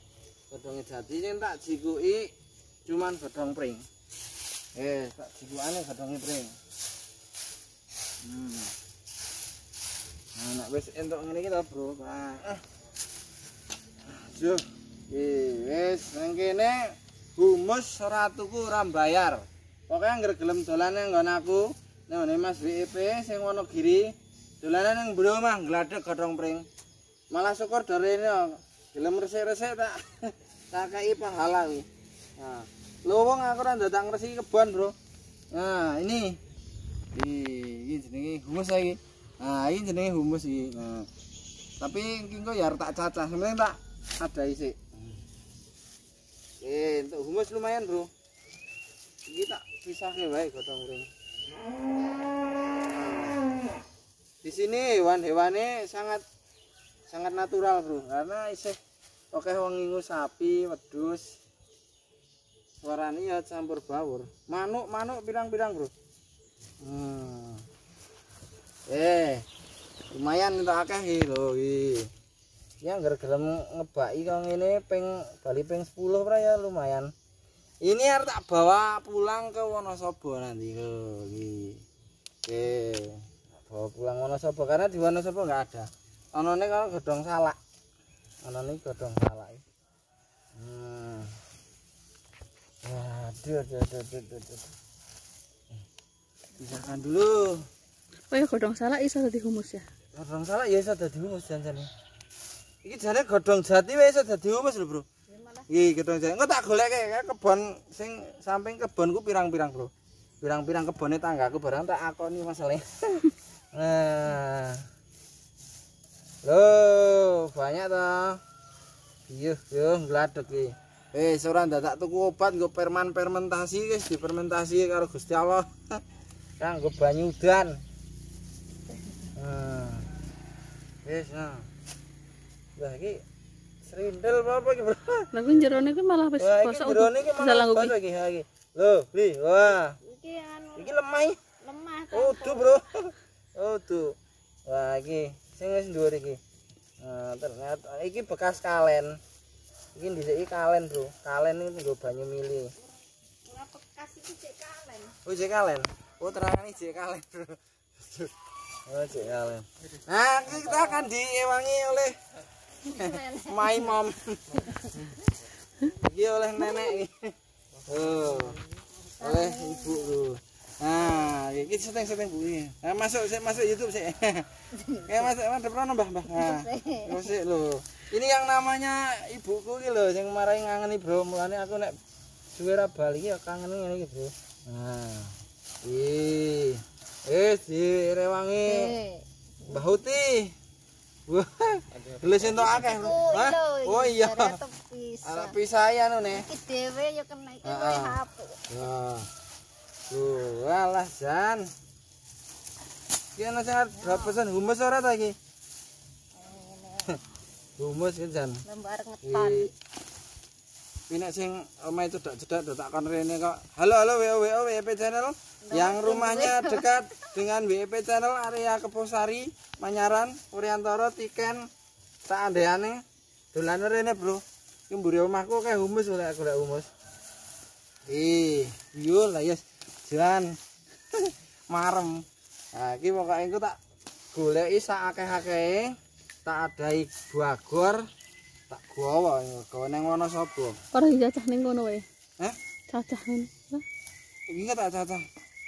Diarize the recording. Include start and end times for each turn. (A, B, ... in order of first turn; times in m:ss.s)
0:00.5-0:02.3 A
0:02.8-0:03.8 A
0:04.7-0:06.6 A
0:08.2-0:08.7 A
0:10.4-0:12.6 A
0:14.1-0:26.7 A
0:27.3-0:31.9 A
0:32.4-0:34.9 A
0:35.5-0:36.4 A
0:37.1-0:41.1 A
0:41.8-0:45.1 A
0:46.6-0:48.1 A
0:49.3-0:51.1 A
0:52.9-0:53.4 A
0:54.4-0:56.2 A
0:57.1-0:58.8 A
0:59.3-1:01.3 A
1:02.8-1:05.9 A
1:06.8-1:07.6 A
1:08.9-1:09.4 A
1:10.1-1:12.1 A
1:12.8-1:17.1 A
1:17.8-1:21.8 A
1:22.4-1:27.6 A
1:28.4-1:29.6 A
1:30.5-1:31.3 A
1:32.8-1:34.7 A
1:36.6-1:37.6 A
1:38.3-1:39.8 B
1:40.1-1:41.9 A
1:42.8-1:45.0 A
1:45.3-1:45.7 C
1:45.7-1:54.8 A
1:56.4-1:58.4 A
1:59.3-2:06.0 A
2:06.6-2:07.8 A
2:09.3-2:10.1 A
2:11.0-2:11.7 A
2:12.8-2:13.2 A
2:13.8-2:15.3 A
2:15.3-2:17.9 B
2:16.4-2:20.0 A
2:20.0-2:21.0 C
2:20.8-2:21.4 A
2:21.6-2:22.8 C
2:22.1-2:26.4 A
2:27.0-2:29.2 A
2:29.9-2:32.7 A
2:33.4-2:35.2 C
2:35.2-2:38.3 A
2:38.8-2:42.2 A
2:40.5-2:41.1 C
2:42.8-2:44.0 C
2:42.9-2:45.2 A
2:44.7-2:45.1 C
2:45.8-2:47.3 A
2:47.8-2:48.6 A
2:49.1-2:50.3 C
2:49.2-3:02.0 A
2:54.8-2:55.2 C
2:56.3-2:57.3 C
3:02.5-3:09.0 A
3:08.6-3:09.9 C
3:09.7-3:10.5 A
3:11.3-3:14.6 A
3:12.4-3:15.6 C
3:15.2-3:16.5 A
3:16.3-3:18.8 C
3:17.6-3:19.3 A
3:20.1-3:21.7 A
3:23.4-3:25.4 A
3:23.9-3:24.4 C
3:26.3-3:27.2 C
3:27.8-3:28.6 A
3:28.6-3:29.7 C
3:29.2-3:29.7 A
3:31.1-3:41.7 A
3:35.7-3:37.0 C
3:42.2-3:43.0 A
3:43.5-3:46.9 A
3:48.1-3:50.6 A
3:51.1-3:52.2 A
3:52.7-3:53.8 A
3:54.3-3:55.9 A
3:56.4-3:58.0 A
3:58.7-4:00.8 A
4:00.9-4:02.0 B
4:02.9-4:03.8 B
4:04.5-4:05.2 A